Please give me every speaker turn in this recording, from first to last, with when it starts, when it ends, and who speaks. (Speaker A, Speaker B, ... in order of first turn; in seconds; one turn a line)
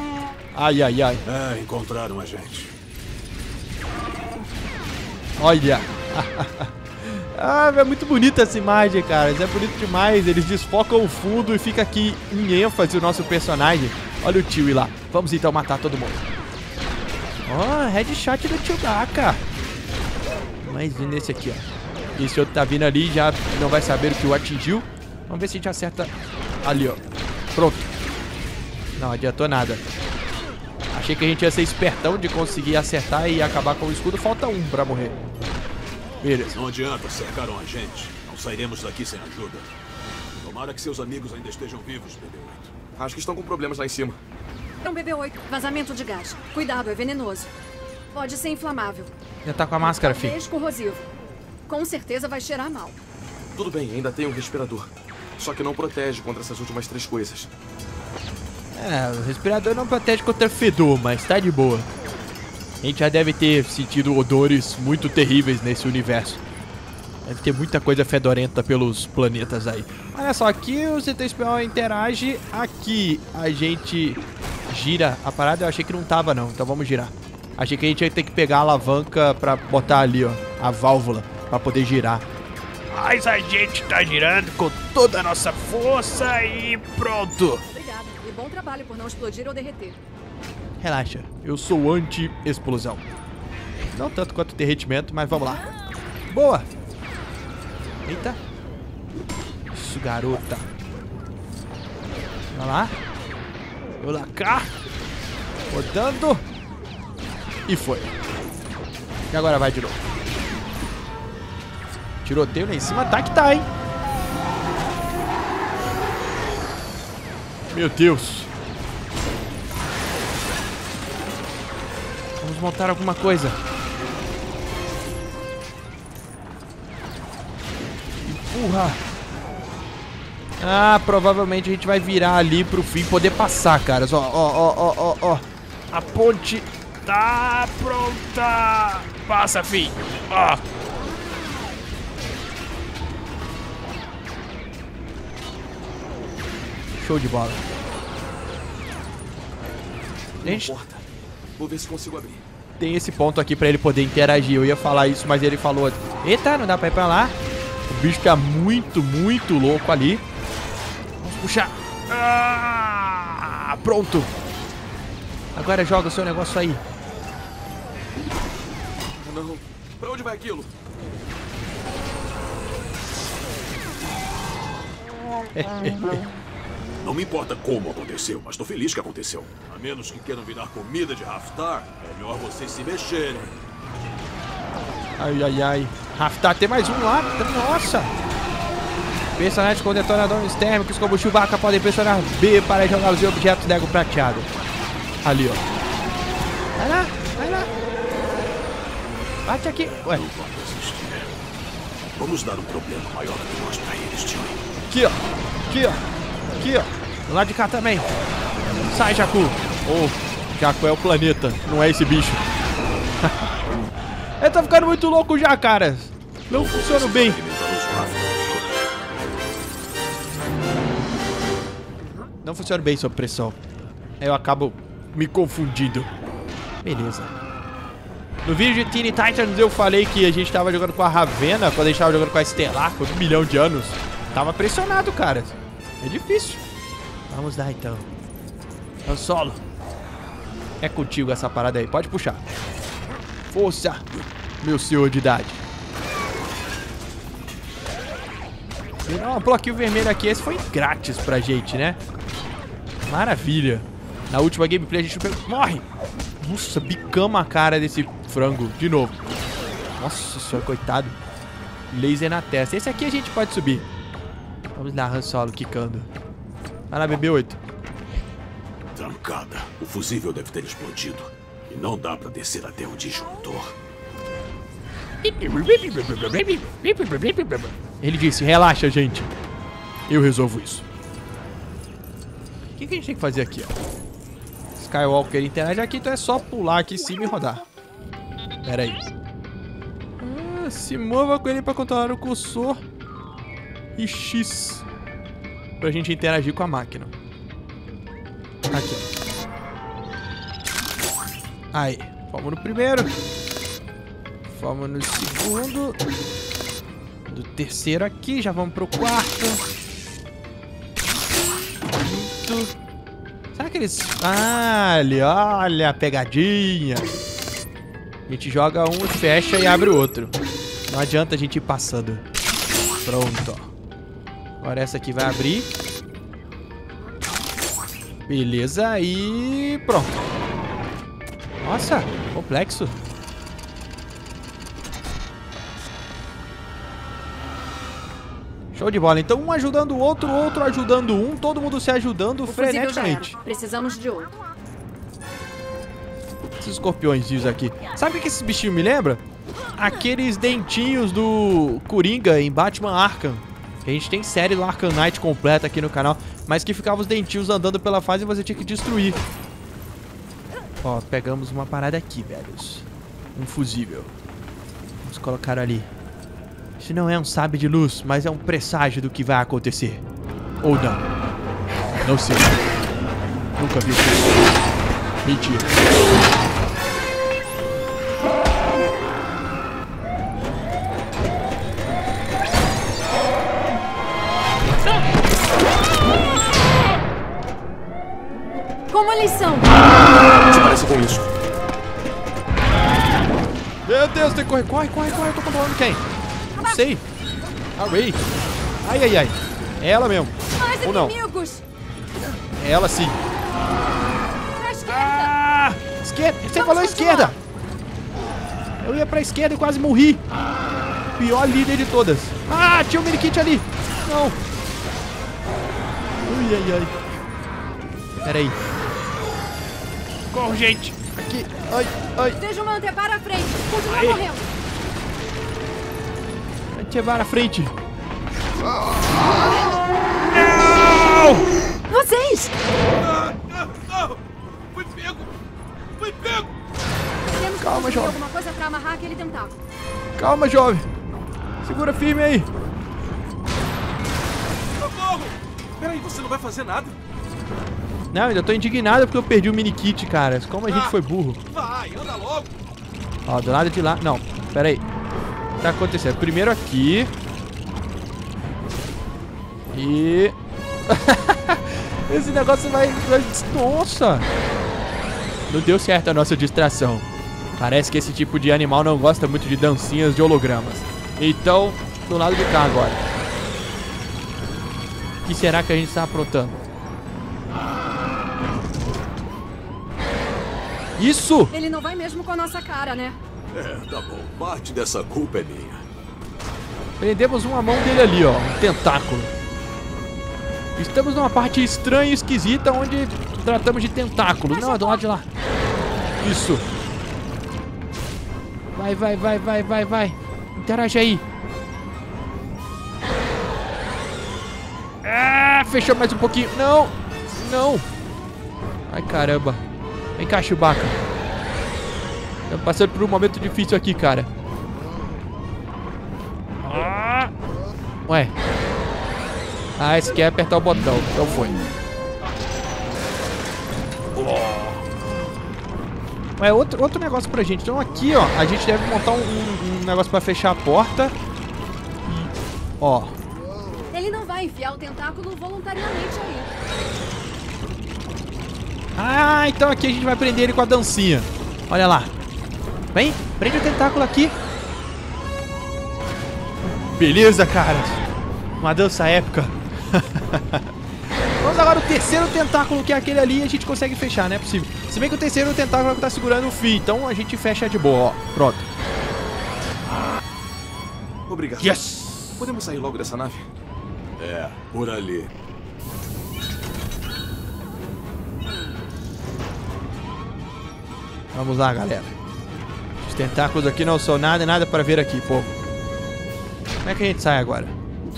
Speaker A: 0.5-1.2
Speaker B: 1.2-2.7
Speaker A: 5.4-16.2
Speaker A: 17.5-19.4
Speaker A: 20.6-21.6
Speaker A: 22.2-26.1
Speaker A: 26.6-27.0
Speaker A: 27.5-27.9
Speaker A: 29.0-29.9
Speaker A: 30.9-35.1
Speaker A: 36.2-36.5
Speaker B: 36.5-39.7
Speaker B: 40.4-42.7
Speaker C: 43.0-44.2
Speaker D: 44.8-47.5
Speaker D: 48.1-49.1
Speaker A: 49.4-50.4
Speaker D: 49.8-51.1
Speaker D: 51.7-53.0
Speaker C: 53.5-57.5
Speaker A: 58.7-61.9
Speaker A: 62.8-66.4
Speaker A: 67.2-82.2
Speaker A: 82.9-87.6
Speaker D: 87.7-90.0
Speaker A: 90.8-93.0
Speaker A: 93.9-95.6
Speaker A: 96.3-96.7
Speaker A: 98.0-98.4
Speaker A: 99.7-100.7
Speaker A: 102.5-102.9
Speaker A: 104.0-104.7
Speaker A: 105.7-106.4
Speaker A: 107.7-108.1
Speaker A: 109.3-110.0
Speaker A: 112.2-113.7
Speaker A: 117.7-118.5
Speaker A: 122.4-123.6
Speaker A: 128.2-129.0
Speaker A: 130.6-140.6
Speaker A: 147.0-147.6
Speaker C: 150.4-151.0
Speaker A: 150.4-150.7
Speaker C: 151.6-152.4
Speaker A: 152.8-157.3
Speaker A: 157.9-160.2
Speaker A: 161.2-164.3
Speaker A: 165.5-166.8
Speaker C: 169.2-170.7
Speaker A: 175.5-176.2
Speaker B: 177.0-183.6
Speaker A: 185.2-188.1
Speaker A: 189.3-194.5
Speaker A: 195.2-195.7
Speaker A: 196.8-197.7
Speaker A: 199.4-200.2
Speaker B: 200.0-201.3
Speaker B: 202.2-204.6
Speaker A: 204.9-206.1
Speaker A: 206.6-208.1
Speaker A: 208.9-212.4
Speaker A: 213.2-213.5
Speaker A: 214.4-217.4
Speaker B: 216.5-218.8
Speaker A: 222.4-223.6
Speaker A: 224.2-226.1
Speaker A: 226.8-227.3
Speaker A: 228.4-236.6
Speaker A: 237.3-238.1
Speaker A: 239.1-239.6
Speaker A: 240.8-242.4
Speaker A: 243.5-244.1
Speaker A: 244.6-245.6
Speaker A: 249.0-252.0
Speaker A: 253.0-255.8
Speaker A: 256.4-259.2
Speaker A: 259.9-261.2
Speaker A: 261.9-263.9
Speaker A: 264.8-266.1
Speaker A: 266.9-267.6
Speaker B: 268.9-273.7
Speaker A: 275.2-279.3
Speaker A: 280.1-280.8
Speaker A: 282.8-283.8
Speaker A: 284.8-287.6
Speaker A: 288.6-289.0
Speaker A: 290.2-292.8
Speaker A: 293.9-294.8
Speaker A: 295.8-297.1
Speaker A: 298.7-299.1
Speaker A: 301.7-303.1
Speaker A: 304.5-306.0
Speaker A: 307.3-309.6
Speaker A: 311.9-312.7
Speaker A: 313.5-317.1
Speaker A: 318.3-320.4
Speaker A: 320.9-322.2
Speaker A: 323.0-323.7
Speaker A: 324.6-325.7
Speaker A: 328.3-330.1
Speaker A: 331.6-332.9
Speaker A: 338.7-343.3
Speaker D: 342.5-344.3
Speaker A: 346.6-349.2
Speaker A: 349.8-359.2
Speaker A: 360.8-364.1
Speaker A: 365.0-365.9
Speaker A: 366.8-370.0
Speaker A: 370.6-371.0
Speaker A: 372.0-372.6
Speaker A: 373.6-374.4
Speaker A: 375.2-375.7
Speaker D: 388.9-389.7
Speaker C: 390.4-391.3
Speaker A: 393.9-396.0
Speaker D: 396.5-396.8
Speaker A: 396.6-397.0
Speaker A: 397.8-398.2
Speaker A: 398.8-401.1
Speaker D: 400.6-401.6
Speaker A: 402.5-403.2
Speaker D: 404.5-405.4
Speaker A: 404.9-407.4
Speaker D: 406.5-407.4
Speaker A: 408.8-410.2
Speaker A: 411.2-414.4
Speaker A: 416.3-416.9
Speaker A: 418.2-418.6
Speaker A: 420.3-422.4
Speaker D: 422.4-424.5
Speaker A: 423.9-424.2
Speaker A: 426.7-427.7
Speaker A: 430.3-431.4
Speaker D: 431.9-432.5
Speaker C: 432.9-434.2
Speaker C: 434.7-435.3
Speaker C: 436.0-436.5
Speaker D: 437.2-439.6
Speaker A: 437.6-438.1
Speaker A: 440.2-440.9
Speaker A: 441.6-442.5
Speaker C: 444.7-446.9
Speaker A: 448.1-451.4
Speaker C: 450.7-452.5
Speaker A: 453.3-454.8
Speaker A: 455.6-457.1
Speaker A: 459.7-460.4
Speaker A: 460.9-464.3
Speaker A: 465.5-467.1
Speaker A: 467.6-473.0
Speaker A: 475.2-476.6
Speaker A: 481.0-481.5
Speaker D: 481.5-483.2
Speaker B: 483.5-485.8
Speaker A: 487.0-489.3
Speaker A: 490.8-495.2
Speaker D: 494.5-495.0
Speaker A: 496.2-496.6
Speaker A: 498.7-501.2
Speaker A: 505.0-507.8
Speaker A: 508.9-509.6
Speaker A: 510.2-511.0
Speaker A: 512.5-514.3
Speaker A: 516.6-517.3
Speaker A: 518.1-518.3
Speaker A: 519.8-521.6
Speaker A: 524.1-524.8
Speaker A: 526.4-531.1
Speaker A: 532.0-533.1
Speaker D: 533.9-536.5
Speaker A: 539.0-542.1
Speaker A: 542.9-544.3
Speaker A: 547.0-548.0
Speaker A: 548.6-550.7
Speaker A: 551.4-558.7
Speaker C: 561.3-561.8
Speaker A: 561.6-562.4
Speaker C: 562.4-563.5
Speaker B: 564.2-565.3
Speaker A: 571.3-572.1
Speaker A: 573.0-575.5
Speaker A: 576.8-577.7